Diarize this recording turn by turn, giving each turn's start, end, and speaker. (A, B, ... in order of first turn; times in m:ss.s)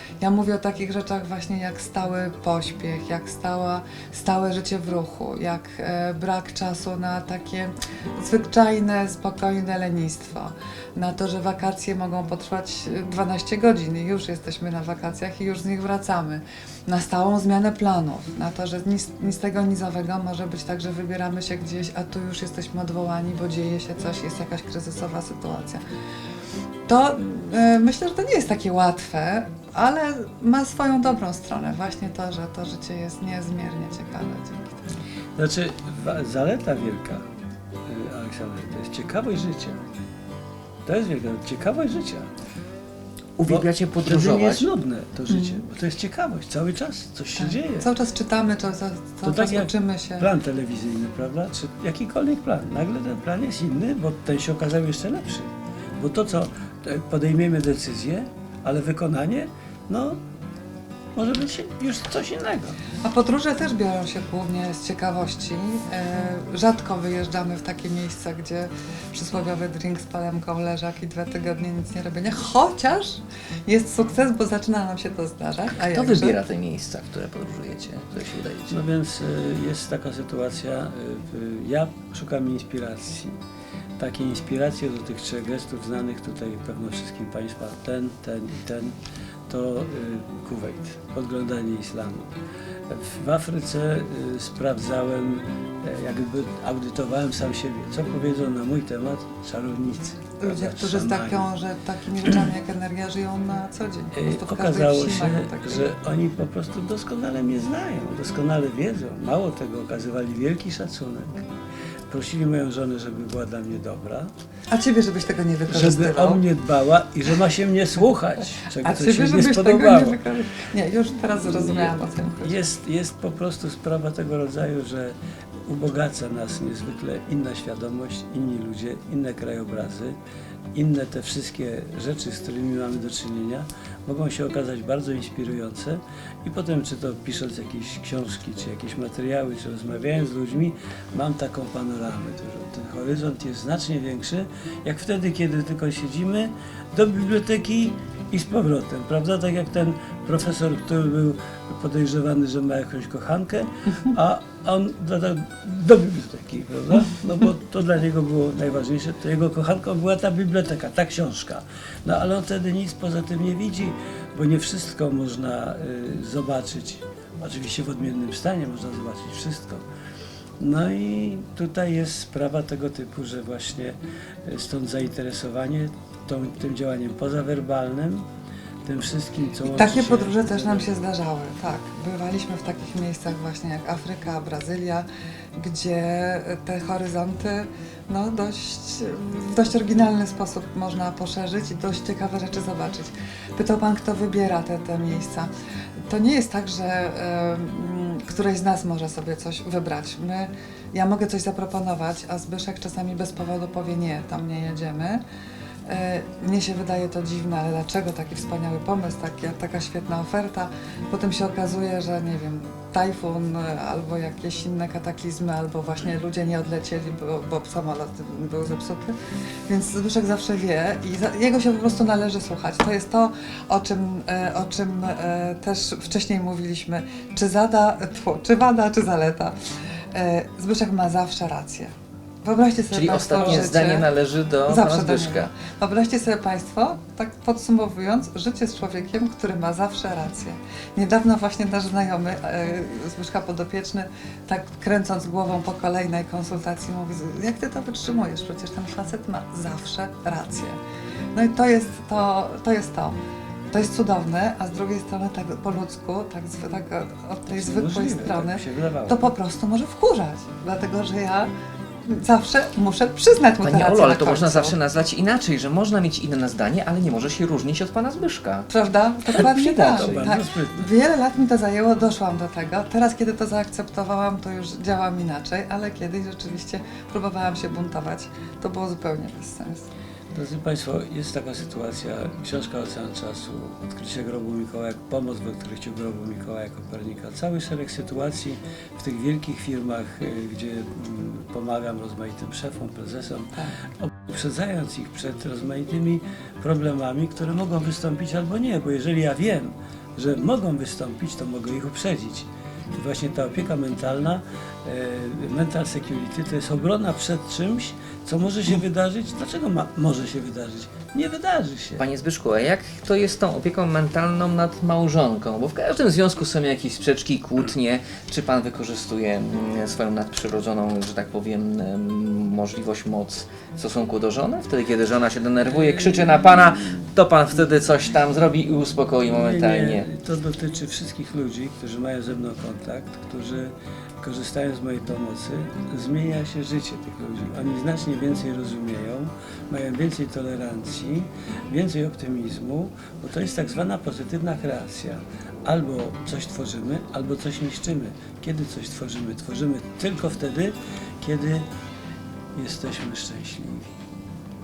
0:00.2-0:25.8 A
0:26.9-0:34.8 A
0:35.4-0:37.2 B
0:37.9-0:39.8 B
0:40.8-0:42.3 B
0:43.4-0:44.6 C
0:43.5-0:47.9 B
0:45.3-0:45.6 A
0:47.4-0:50.3 A
0:49.2-1:00.2 B
1:01.1-1:02.8 B
1:03.0-1:16.4 A
1:15.7-1:18.8 C
1:18.7-1:23.4 B
1:24.0-1:28.9 B
1:29.5-1:32.3 B
1:32.9-1:41.5 B
1:40.4-1:45.9 A
1:44.1-1:51.5 B
1:52.1-1:54.3 B
1:54.7-1:56.4 A
1:55.7-2:00.2 B
1:58.8-2:02.6 A
2:01.4-2:10.2 B
2:10.7-2:49.8 B
2:50.6-2:58.2 B
2:58.8-3:01.0 B
2:59.6-3:15.5 A
3:16.1-3:25.2 A
3:25.9-3:39.1 A
3:39.7-3:49.5 A
3:50.1-3:51.9 A
3:52.4-3:54.1 A
3:52.9-3:55.5 C
3:53.3-3:53.7 B
3:54.6-4:10.8 A
4:11.3-4:13.2 A
4:13.7-4:21.5 A
4:17.5-4:19.2 B
4:22.0-4:24.8 A
4:23.6-4:28.7 C
4:28.7-4:39.8 A
4:29.3-4:30.3 C
4:29.8-4:30.9 B
4:40.3-5:12.0 B
5:12.0-5:30.1 C
5:25.7-5:27.0 B
5:29.3-5:51.6 B
5:52.6-5:53.9 B